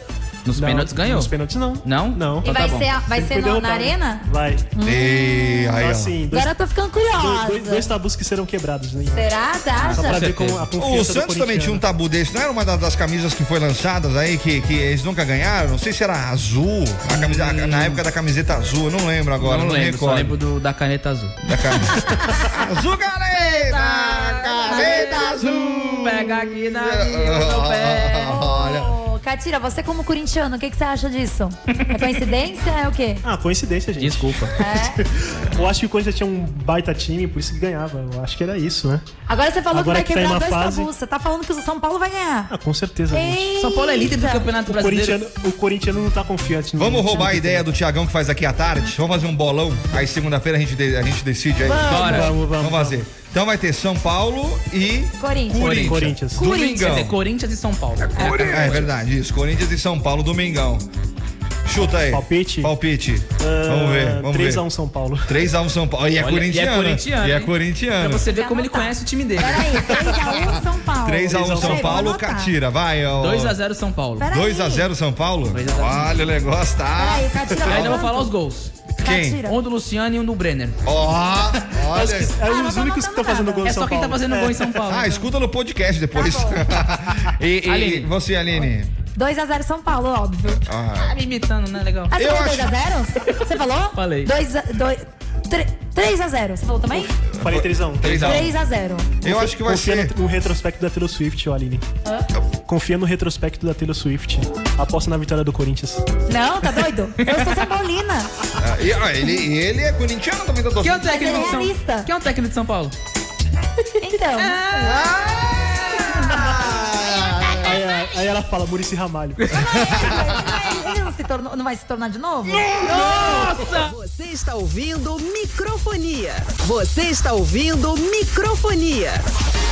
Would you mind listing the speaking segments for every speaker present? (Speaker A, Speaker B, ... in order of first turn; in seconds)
Speaker A: 0.5-1.3, 1.8-2.9, 9.8-10.6, 17.1-18.0, 19.4-21.4, 23.3-28.4, 34.0-34.5, 43.6-45.2, 51.9-52.4, 55.5-58.9, 66.2-70.2, 73.2-74.3, 75.5-76.2, 77.7-78.8, 79.5-80.8, 83.7-85.3, 87.7-88.1, 91.0-92.5, 94.0-94.3, 98.0-98.5, 107.2-107.7, 110.8-113.0, 114.4-115.2, 115.9-116.2, 122.7-123.9
Speaker B: 0.6-2.5, 3.0-4.7, 5.7-6.5, 7.1-9.3, 9.9-11.8, 33.2-39.0, 39.7-40.9, 42.5-43.5, 44.6-47.6, 51.6-53.0, 55.8-56.4, 62.1-62.7, 63.4-65.4, 69.9-70.6, 71.3-72.0, 81.7-84.7, 97.4-98.3, 99.2-101.8, 102.7-106.0, 117.6-119.5
Speaker C: 2.4-5.8, 6.3-7.9, 9.1-10.3, 24.7-25.4, 28.2-33.2, 34.6-35.0, 39.3-42.5, 43.1-44.5, 55.2-55.8, 58.2-58.7, 68.3-72.5, 74.2-74.9, 77.0-78.3, 79.0-79.6, 82.4-83.7, 86.1-86.6, 89.2-90.6, 92.1-97.1, 98.2-99.1, 106.3-108.3, 111.0-112.1, 114.0-115.0, 119.5-122.7
Speaker D: 4.8-6.2, 10.8-20.4, 21.4-28.9, 46.8-57.2, 58.2-60.9, 61.7-64.7, 65.3-68.3, 71.0-73.6, 74.3-78.0, 79.0-79.5, 80.8-82.3, 84.9-88.9, 90.5-91.2, 92.2-92.7, 97.4-98.5, 99.2-100.1, 108.6-111.5, 114.8-117.8, 119.7-120.5, 122.5-123.5
Speaker E: 123.1-129.2